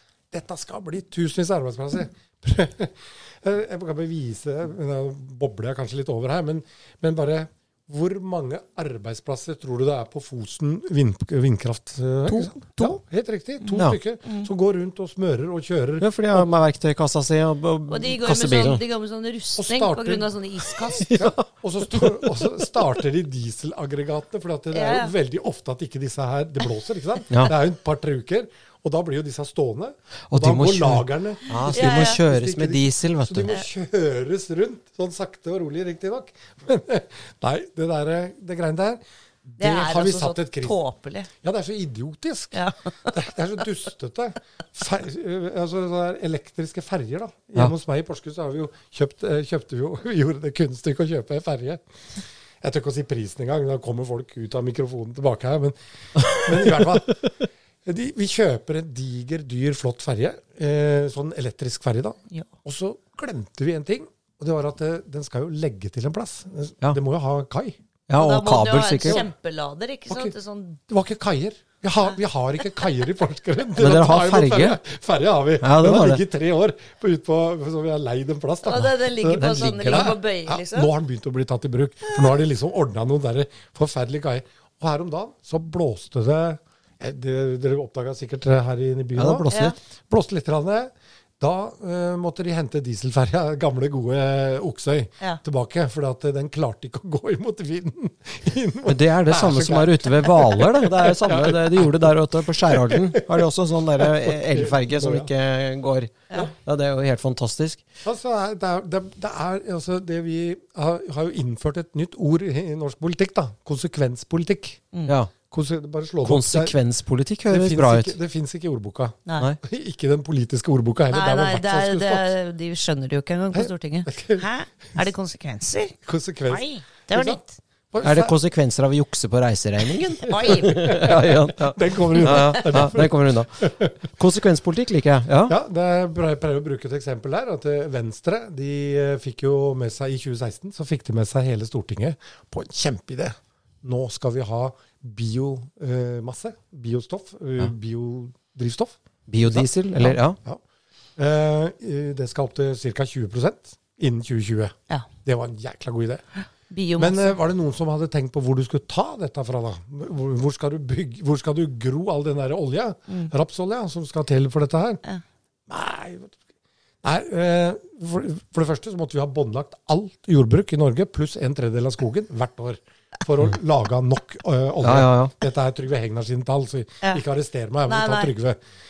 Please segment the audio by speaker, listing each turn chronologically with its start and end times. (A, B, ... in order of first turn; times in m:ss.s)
0:00.3-0:16.5 A
0:12.3-0:13.0 B
0:13.6-0:14.5 B
0:16.0-0:18.8 C
0:17.9-0:21.0 B
0:19.6-0:40.8 A
0:20.9-0:22.8 C
0:24.7-0:25.1 B
0:30.3-0:33.5 C
0:31.7-0:32.2 B
0:39.6-0:41.3 B
0:41.4-0:51.8 A
0:42.5-0:43.1 B
0:52.6-1:07.8 A
0:56.2-0:56.8 C
1:08.1-1:09.2 C
1:08.1-1:10.8 B
1:09.0-1:09.3 A
1:10.1-1:10.3 A
1:10.9-1:29.6 A
1:13.8-1:14.8 C
1:15.6-1:16.2 C
1:18.6-1:20.9 B
1:19.3-1:20.1 C
1:29.1-1:29.7 C
1:29.5-1:29.7 B
1:30.1-1:45.3 A
1:38.8-1:47.8 C
1:48.0-1:54.8 A
1:55.0-1:55.3 C
1:55.5-1:56.7 A
1:56.2-1:58.1 C
1:57.5-2:02.3 A
2:01.1-2:06.0 B
2:03.5-2:04.4 A
2:06.0-2:08.4 A
2:06.5-2:07.5 B
2:08.0-2:15.6 C
2:10.2-2:11.1 B
2:10.2-2:13.9 A
2:12.2-2:12.8 B
2:15.5-2:30.6 A
2:29.3-2:30.4 C
2:31.2-2:36.2 A
2:36.7-2:37.4 B
2:37.0-2:45.0 A
2:45.7-2:46.4 A
2:47.0-2:58.6 A
2:54.8-2:55.3 C
2:57.9-2:58.3 B